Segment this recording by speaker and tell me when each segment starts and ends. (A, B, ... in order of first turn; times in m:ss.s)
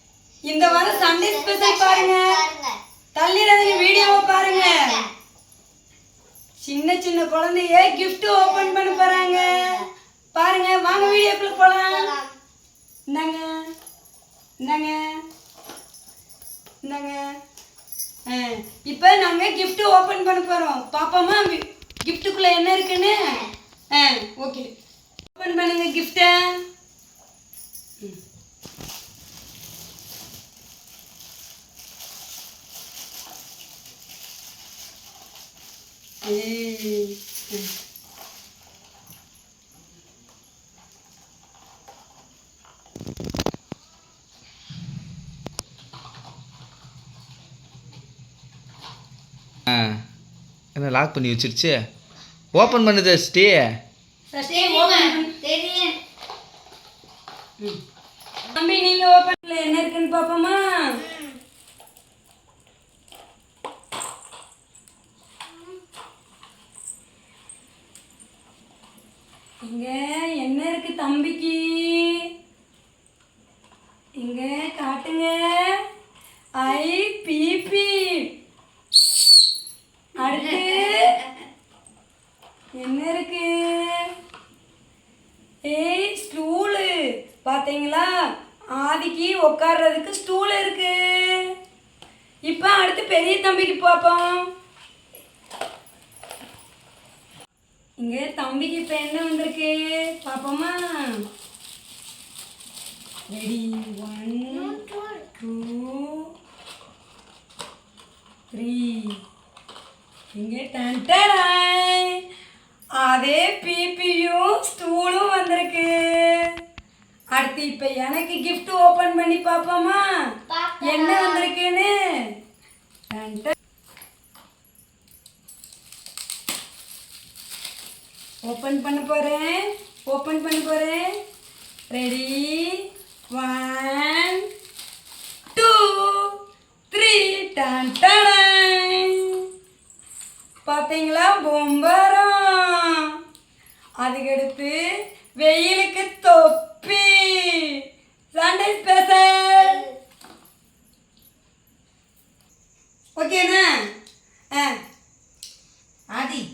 0:00.4-0:02.4 A
0:00.6-0:02.8 B
0:03.1-0:05.0 A
0:03.6-0:05.1 B
0:06.6-0:09.8 A
0:07.8-0:09.9 B
0:10.3-0:12.1 A
0:10.9-0:12.3 B
0:13.1-0:13.5 A
0:14.6-0:15.0 A
0:16.8-0:17.2 A
0:18.3-0:24.7 A
0:23.0-0:23.5 B
0:25.3-0:26.6 A
0:36.2-0:37.7 A
0:49.7-0:50.0 C
0:50.7-0:51.8 C
0:52.5-0:53.8 C
0:54.3-0:55.3 A
0:54.5-0:56.0 B
0:58.5-1:01.0 A
1:01.0-1:01.4 B
1:09.6-1:12.3 A
1:14.2-1:15.8 A
1:16.6-1:18.3 A
1:20.2-1:21.2 A
1:22.8-1:24.1 A
1:25.6-1:28.1 A
1:28.8-1:31.5 A
1:32.5-1:34.5 A
1:38.0-1:41.2 A
1:43.3-1:44.8 A
1:44.5-1:45.2 B
1:45.4-1:46.3 A
1:48.5-1:49.2 A
1:50.3-1:52.2 A
1:53.0-1:56.5 A
1:57.3-2:00.0 A
2:00.5-2:01.5 B
2:00.8-2:01.9 A
2:03.1-2:03.5 A
2:08.5-2:11.1 A
2:11.9-2:14.4 A
2:15.5-2:16.4 A
2:16.9-2:19.4 A
2:20.6-2:23.2 A
2:24.0-2:24.8 A
2:25.4-2:27.8 A
2:28.3-2:29.8 A
2:29.6-2:29.9 B
2:33.2-2:33.7 A
2:34.5-2:34.8 A
2:36.2-2:36.4 B